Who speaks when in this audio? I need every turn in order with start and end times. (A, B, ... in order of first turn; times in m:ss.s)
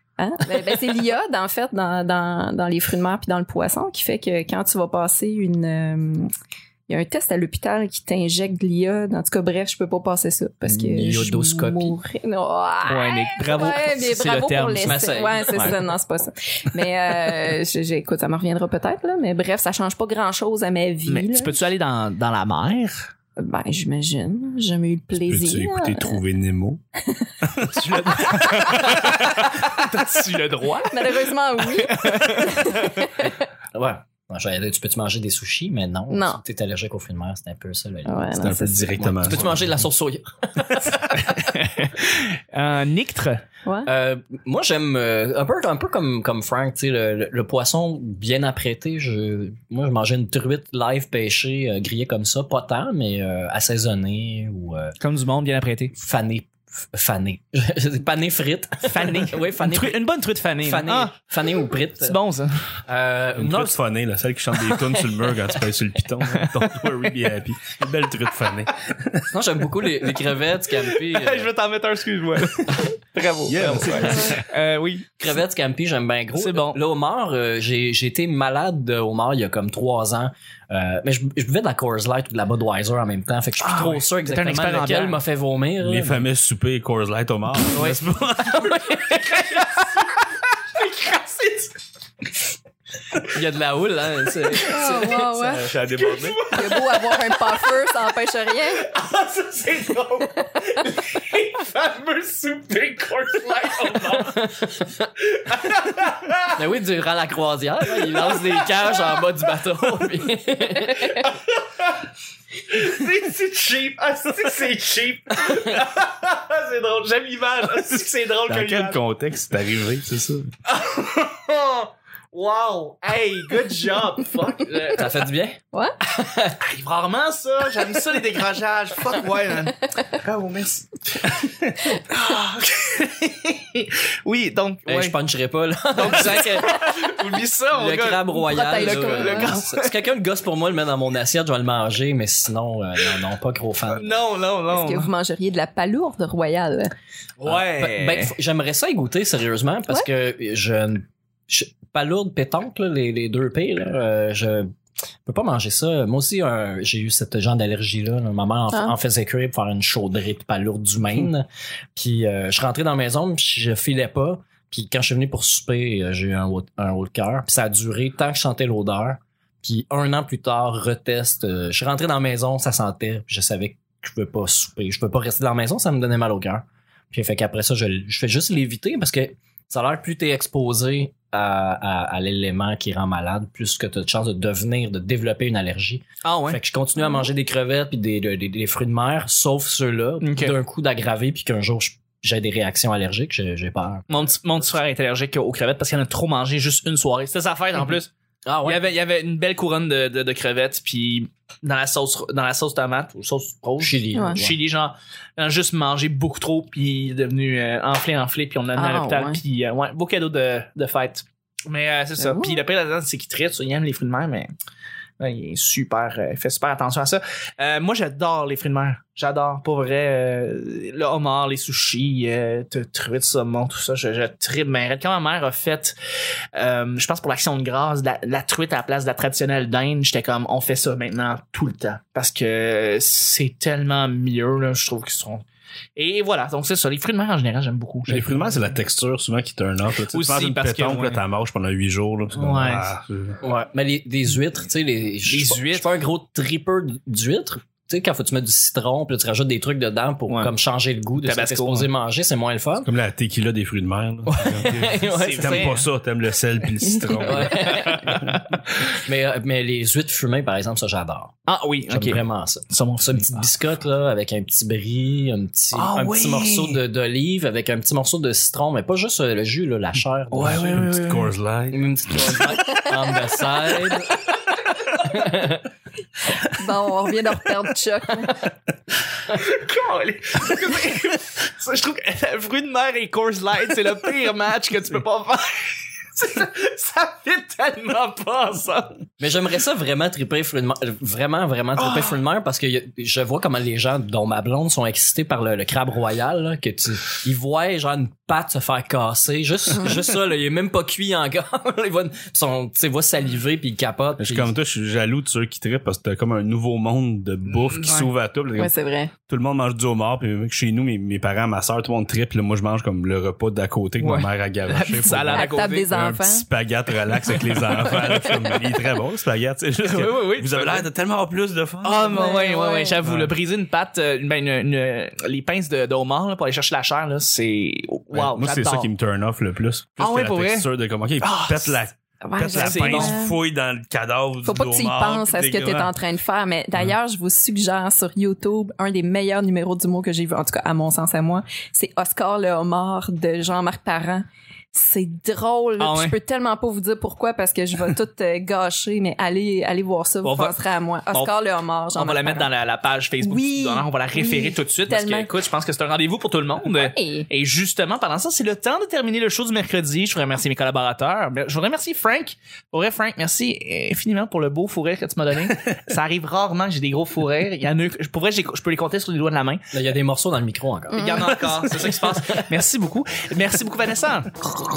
0:00.2-0:06.3 A
0:06.9-0:21.6 A
0:10.6-0:11.9 B
0:12.8-0:15.8 C
0:14.8-0:15.8 B
0:21.1-0:23.1 C
0:23.4-0:26.2 A
0:25.2-0:26.8 D
0:27.4-0:29.6 D
0:27.7-0:33.1 C
0:30.8-0:33.3 A
0:33.2-0:38.4 B
0:36.1-0:36.4 A
0:38.0-0:39.1 A
0:38.3-0:39.7 D
0:39.0-0:41.1 B
0:41.1-0:43.4 C
0:43.6-0:43.9 A
0:43.8-0:55.0 B
0:55.0-0:55.9 C
0:56.0-1:00.0 B
0:58.8-1:01.1 C
1:00.6-1:02.2 B
1:02.0-1:02.6 C
1:02.8-1:03.7 B
1:03.4-1:09.3 D
1:04.7-1:05.0 C
1:06.3-1:06.7 C
1:09.3-1:11.5 B
1:10.7-1:15.2 C
1:13.4-1:14.4 D
1:15.2-1:26.2 B
1:16.3-1:16.8 C
1:23.6-1:25.2 C
1:25.8-1:28.8 D
1:27.7-1:31.8 C
1:33.3-1:35.5 B
1:34.4-1:35.0 C
1:34.6-1:35.7 A
1:35.4-1:36.4 D
1:35.9-1:38.2 C
1:36.5-1:38.9 A
1:38.7-1:44.6 C
1:44.0-1:45.1 B
1:45.3-1:46.6 C
1:46.5-1:51.3 B
1:47.9-1:49.4 C
1:50.9-1:52.0 C
1:52.7-1:59.0 C
1:58.5-2:00.5 D
2:00.7-2:05.2 C
2:04.9-2:06.6 B
2:06.6-2:15.2 C
2:14.9-2:16.8 B
2:15.9-2:20.0 C
2:17.7-2:24.2 B
2:18.3-2:19.5 A
2:23.9-2:25.1 C
2:24.7-2:26.9 A
2:27.4-2:28.3 C
2:27.4-2:34.7 B
2:35.2-3:14.0 B
3:06.2-3:06.6 C
3:10.2-3:10.5 C
3:14.1-3:18.1 C
3:18.4-3:18.8 B
3:18.6-3:34.5 C
3:23.8-3:24.6 B
3:24.1-3:24.4 A
3:28.8-3:29.4 A
3:32.2-3:32.6 A
3:35.2-3:45.9 C
3:46.5-3:55.4 C
3:56.0-3:58.8 C
3:58.1-4:03.4 D
4:00.1-4:01.2 C
4:02.4-4:02.9 C
4:03.4-4:12.9 B
4:05.3-4:05.9 C
4:11.2-4:11.9 C
4:12.8-4:18.4 D
4:14.3-4:15.7 B
4:15.1-4:15.9 C
4:17.2-4:18.2 B
4:17.5-4:18.4 C
4:18.9-4:21.4 B
4:21.5-4:23.5 C
4:21.9-4:30.8 B
4:25.7-4:26.8 C
4:30.3-4:31.3 C
4:30.4-4:31.9 D
4:31.7-4:34.2 B
4:35.0-4:35.6 B
4:36.3-4:38.4 A
4:39.2-4:49.0 C
4:49.2-5:04.5 B
4:51.8-4:52.2 C
5:04.2-5:08.7 D
5:07.5-5:08.1 C
5:08.6-5:09.1 A
5:09.3-5:22.3 D
5:14.0-5:15.9 C
5:15.3-5:16.4 A
5:17.2-5:18.7 C
5:19.8-5:20.8 C
5:21.8-5:28.9 C
5:22.0-5:23.0 A
5:23.0-5:23.3 D
5:28.1-5:35.9 D
5:30.0-5:30.7 C
5:31.2-5:31.8 C
5:32.2-5:33.3 A
5:32.4-5:33.2 C
5:34.4-5:52.5 A
5:45.8-5:46.2 C
5:50.2-5:50.6 C
5:51.9-6:09.7 C
5:53.2-5:55.3 A
5:56.7-5:57.3 A
6:09.7-6:11.3 B
6:10.9-6:11.5 A
6:10.9-6:14.3 C
6:11.4-6:11.6 D
6:11.9-6:12.5 B